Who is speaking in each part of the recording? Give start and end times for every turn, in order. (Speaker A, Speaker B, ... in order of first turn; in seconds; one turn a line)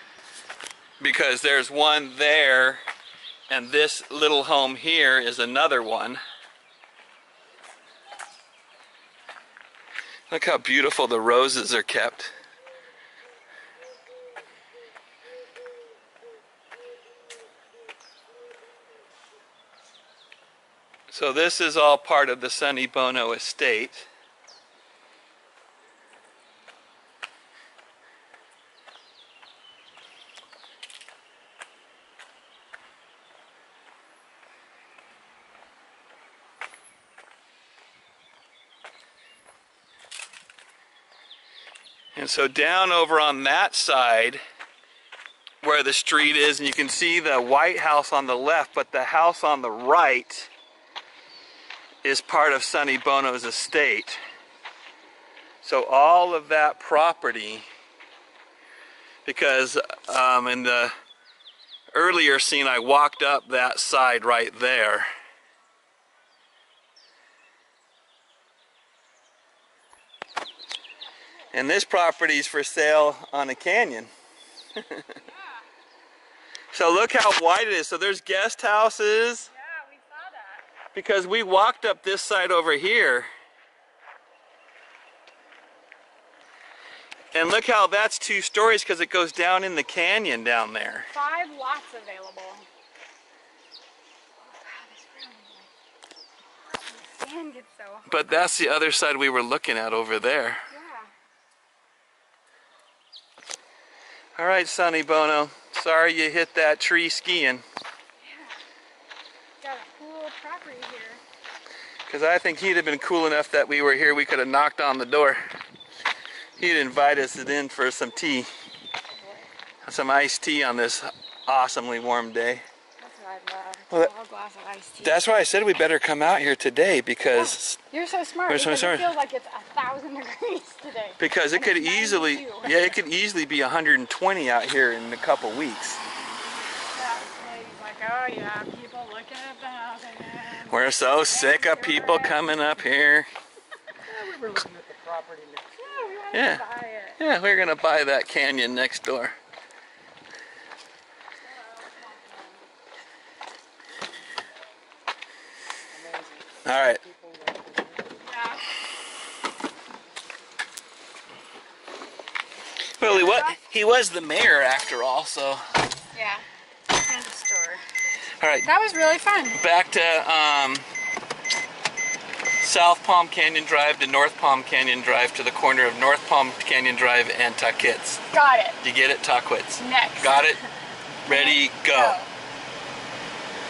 Speaker A: 1.0-2.8
Speaker A: 3.5-6.2
Speaker A: 10.3-12.3
Speaker A: 21.1-24.1
Speaker A: 42.1-44.4
Speaker A: 45.6-50.5
Speaker A: 52.0-54.2
Speaker A: 55.6-57.6
Speaker A: 59.2-60.9
Speaker A: 61.9-65.1
Speaker A: 71.5-74.1
Speaker A: 74.8-75.2
Speaker B: 75.2-75.6
Speaker A: 76.7-79.5
Speaker B: 79.5-80.6
Speaker A: 81.0-83.3
Speaker A: 87.3-91.1
Speaker B: 91.1-92.7
Speaker B: 94.4-95.7
Speaker B: 96.8-98.1
Speaker A: 98.1-100.7
Speaker B: 100.7-101.1
Speaker A: 104.4-107.6
Speaker B: 108.2-108.6
Speaker B: 109.6-111.2
Speaker A: 112.1-115.4
Speaker A: 116.6-118.5
Speaker B: 119.1-119.5
Speaker A: 119.8-122.6
Speaker B: 123.0-125.2
Speaker A: 125.0-127.8
Speaker B: 127.3-132.9
Speaker A: 128.5-129.1
Speaker A: 131.2-136.0
Speaker B: 136.9-142.4
Speaker A: 140.7-143.3
Speaker C: 144.1-146.0
Speaker B: 145.8-147.2
Speaker A: 146.3-146.7
Speaker A: 147.2-149.4
Speaker B: 151.5-152.6
Speaker C: 155.9-158.2
Speaker A: 156.7-157.0
Speaker B: 158.2-158.6
Speaker A: 163.0-165.6
Speaker B: 163.0-163.6
Speaker B: 166.1-166.4
Speaker B: 167.0-167.8
Speaker A: 168.4-168.7
Speaker B: 168.6-169.6
Speaker A: 169.6-170.8
Speaker A: 172.6-178.2
Speaker B: 178.3-178.8
Speaker A: 178.8-180.6
Speaker B: 179.8-180.6
Speaker A: 181.2-182.2
Speaker B: 181.3-182.3